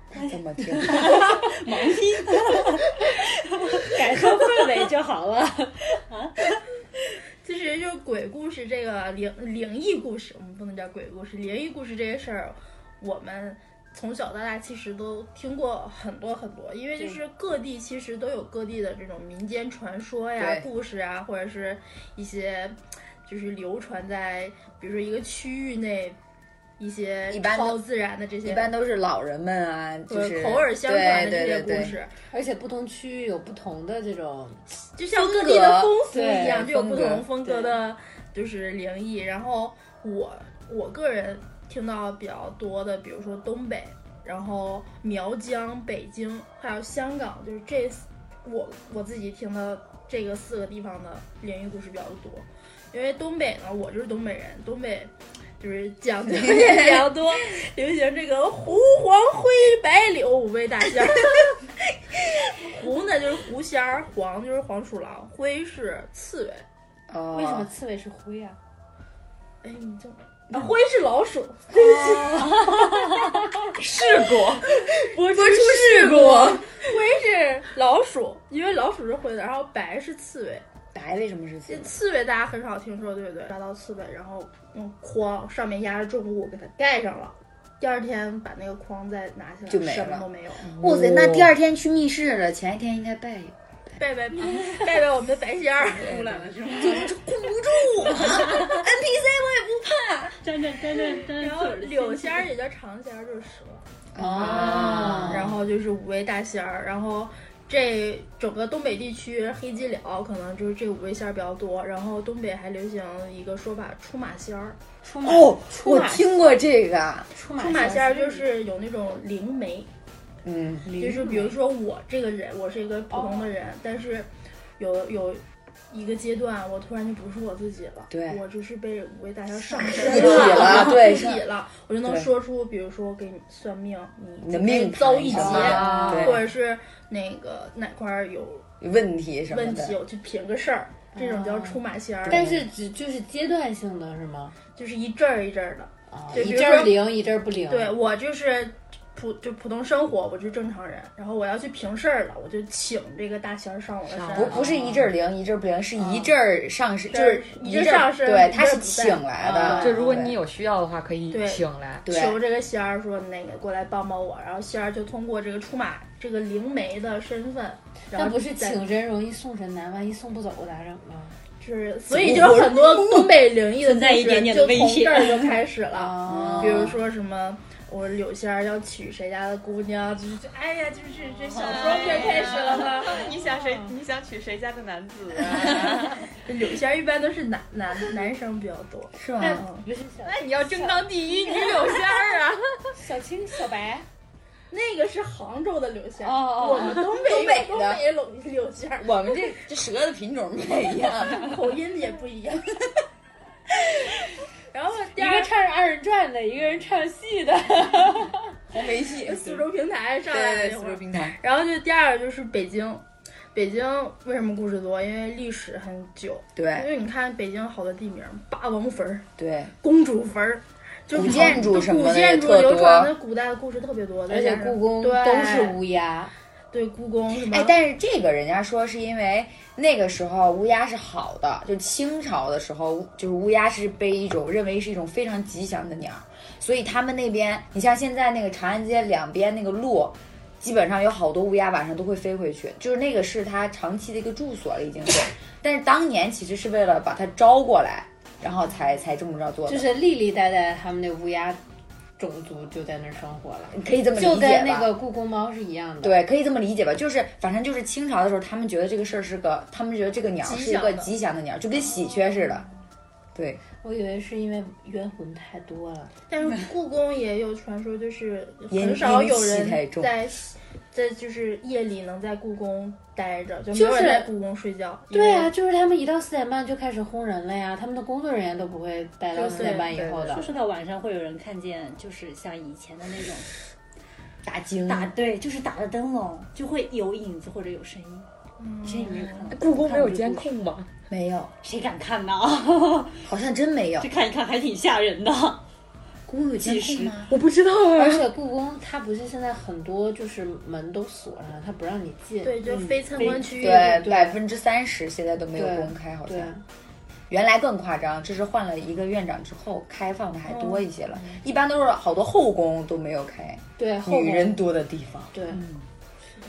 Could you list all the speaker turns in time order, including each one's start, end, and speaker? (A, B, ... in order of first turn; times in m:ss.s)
0:00.1-0:01.3 A
0:00.1-0:03.8 B
0:03.8-0:06.0 C
0:06.1-0:06.6 B
0:07.4-0:26.2 D
0:20.4-0:20.7 A
0:26.8-0:28.7 D
0:27.3-0:27.8 A
0:28.4-0:32.0 A
0:30.1-0:32.1 D
0:32.3-0:34.6 C
0:35.0-1:01.6 D
0:35.1-0:37.3 A
0:36.1-0:36.7 C
0:37.4-0:37.8 C
0:56.4-0:57.1 A
1:02.2-1:06.6 D
1:07.1-1:07.7 A
1:07.3-1:08.6 C
1:09.6-1:13.0 D
1:11.8-1:12.5 A
1:12.2-1:12.5 C
1:13.7-1:14.7 E
1:14.0-1:20.6 D
1:15.0-1:16.7 A
1:20.9-1:21.9 A
1:21.7-1:30.7 D
1:29.6-1:33.5 A
1:30.6-1:31.5 E
1:34.0-1:37.0 D
1:35.9-1:40.4 A
1:36.3-1:37.2 B
1:38.0-1:38.9 B
1:40.4-1:42.5 B
1:41.2-1:43.8 D
1:44.1-1:45.6 A
1:44.2-1:45.5 C
1:44.4-1:54.8 D
1:55.0-1:56.4 C
1:55.2-1:57.3 A
1:57.3-1:58.5 C
1:57.5-1:59.9 D
2:00.4-2:01.2 A
2:00.9-2:01.5 C
2:01.0-2:18.6 D
2:03.1-2:03.5 C
2:08.1-2:08.4 A
2:09.8-2:11.4 A
2:10.0-2:11.1 E
2:14.4-2:16.4 A
2:15.3-2:16.4 C
2:15.6-2:16.2 E
2:18.8-2:20.0 A
2:19.5-2:22.6 D
2:21.1-2:24.6 C
2:22.2-2:22.6 A
2:24.8-2:27.1 D
2:26.1-2:28.0 C
2:27.7-2:34.7 D
2:34.1-2:34.5 E
2:34.3-2:40.4 A
2:34.3-2:35.1 C
2:36.0-2:36.3 C
2:37.1-2:39.3 D
2:39.4-2:40.2 C
2:39.6-2:42.1 E
2:41.3-2:48.9 D
2:42.0-2:42.4 A
2:48.1-2:51.4 C
2:51.6-3:03.3 D
2:52.1-2:53.3 A
2:53.8-2:55.6 B
2:55.9-2:56.9 C
2:56.2-2:57.0 A
3:01.5-3:02.8 B
3:01.6-3:06.4 E
3:06.4-3:09.8 D
3:09.2-3:09.6 A
3:09.4-3:11.9 C
3:10.2-3:13.0 E
3:13.0-3:14.0 C
3:14.7-3:19.6 D
3:16.2-3:17.0 C
3:16.9-3:18.0 A
3:19.0-3:21.6 A
3:21.0-3:22.8 D
3:24.7-3:25.5 D
3:25.1-3:28.5 C
3:28.7-3:29.6 A
3:29.2-3:39.3 D
3:30.3-3:31.4 A
3:36.6-3:36.9 A
3:39.4-3:39.7 A
3:39.8-3:45.8 D
3:41.1-3:43.1 A
3:44.3-3:46.3 C
3:46.7-3:47.7 D
3:47.3-4:09.9 A
4:09.6-4:11.6 C
4:12.2-4:16.2 C
4:13.7-4:14.9 A
4:16.0-4:22.7 A
4:20.4-4:21.1 D
4:23.3-4:23.6 A
4:23.7-4:26.1 C
4:26.3-4:35.5 D
4:28.7-4:30.1 A
4:33.7-4:34.3 C
4:35.1-4:40.5 C
4:39.3-4:40.0 D
4:39.9-4:40.3 E
4:40.3-4:43.5 B
4:44.4-4:45.1 A
4:44.9-4:48.3 B
4:48.6-4:49.5 D
4:48.8-4:50.5 B
4:49.5-4:50.9 E
4:51.1-4:51.5 A
4:51.6-4:53.2 B
4:53.2-4:54.1 A
4:54.0-4:55.6 B
4:56.3-4:57.3 A
4:56.6-4:57.2 B
4:57.3-4:58.2 E
4:57.9-5:04.3 C
5:02.4-5:04.1 D
5:02.7-5:03.3 B
5:03.4-5:06.6 A
5:05.6-5:06.6 C
5:07.3-5:15.6 A
5:10.5-5:10.9 D
5:13.8-5:14.6 C
5:15.3-5:15.6 C